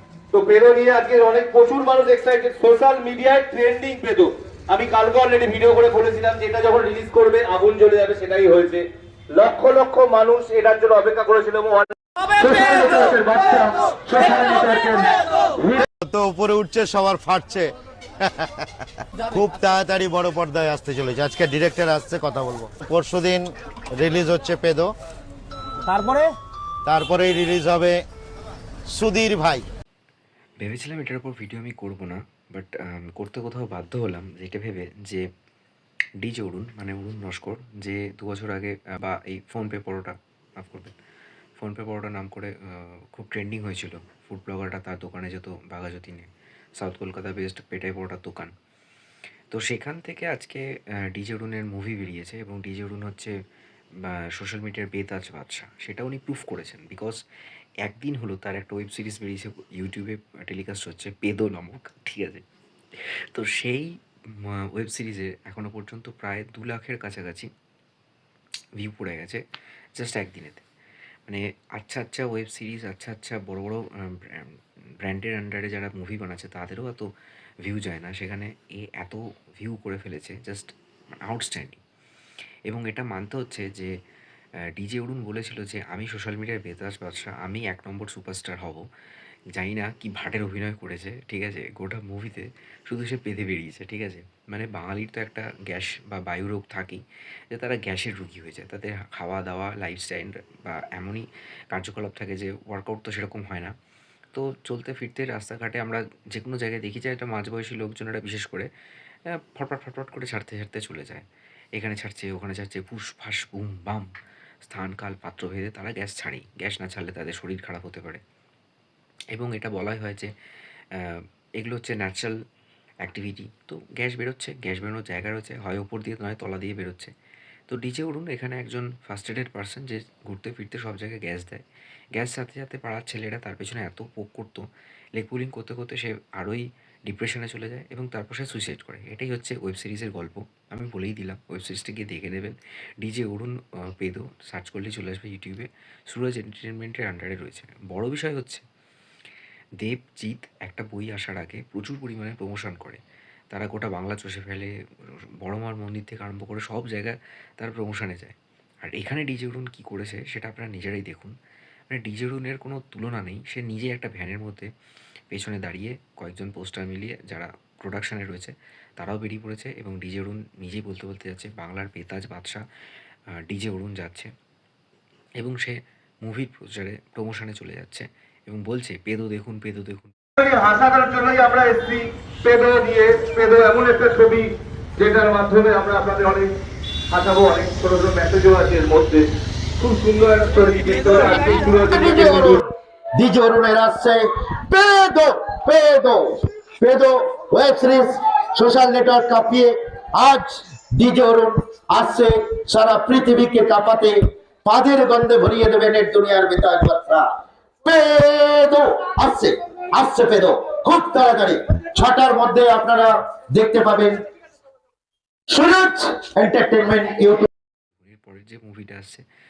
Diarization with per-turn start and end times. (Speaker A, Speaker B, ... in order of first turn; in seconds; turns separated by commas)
Speaker A: 0.3-15.9, Speaker B: 16.0-17.7, Speaker B: 19.3-24.9, Speaker C: 19.5-19.8, Speaker C: 21.4-21.7, Speaker C: 22.8-23.1, Speaker B: 25.9-26.2, Speaker B: 26.9-28.0, Speaker C: 28.9-29.4, Speaker B: 29.0-29.6, Speaker D: 30.6-35.2, Speaker D: 36.2-40.9, Speaker D: 41.6-46.3, Speaker D: 46.8-48.5, Speaker D: 49.5-53.3, Speaker D: 54.0-57.2, Speaker D: 57.8-62.4, Speaker D: 63.3-67.5, Speaker D: 68.8-69.4, Speaker D: 70.0-70.6, Speaker D: 71.3-77.1, Speaker D: 77.7-80.7, Speaker D: 81.2-81.8, Speaker D: 82.7-83.9, Speaker D: 84.8-88.8, Speaker D: 89.5-103.7, Speaker D: 104.3-108.7, Speaker D: 109.5-111.2, Speaker D: 111.8-114.1, Speaker D: 114.6-118.2, Speaker D: 119.3-120.3, Speaker D: 120.9-122.3, Speaker D: 123.0-127.1, Speaker D: 127.7-131.6, Speaker D: 132.2-134.6, Speaker D: 135.2-148.6, Speaker D: 149.8-153.0, Speaker D: 153.5-154.7, Speaker D: 155.4-161.3, Speaker D: 161.9-164.7, Speaker D: 165.3-172.6, Speaker D: 173.5-174.3, Speaker D: 175.4-180.1, Speaker A: 180.4-186.5, Speaker A: 187.1-189.2, Speaker A: 189.8-192.6, Speaker C: 191.9-207.3, Speaker C: 207.8-214.2, Speaker C: 215.5-217.5, Speaker D: 218.0-219.2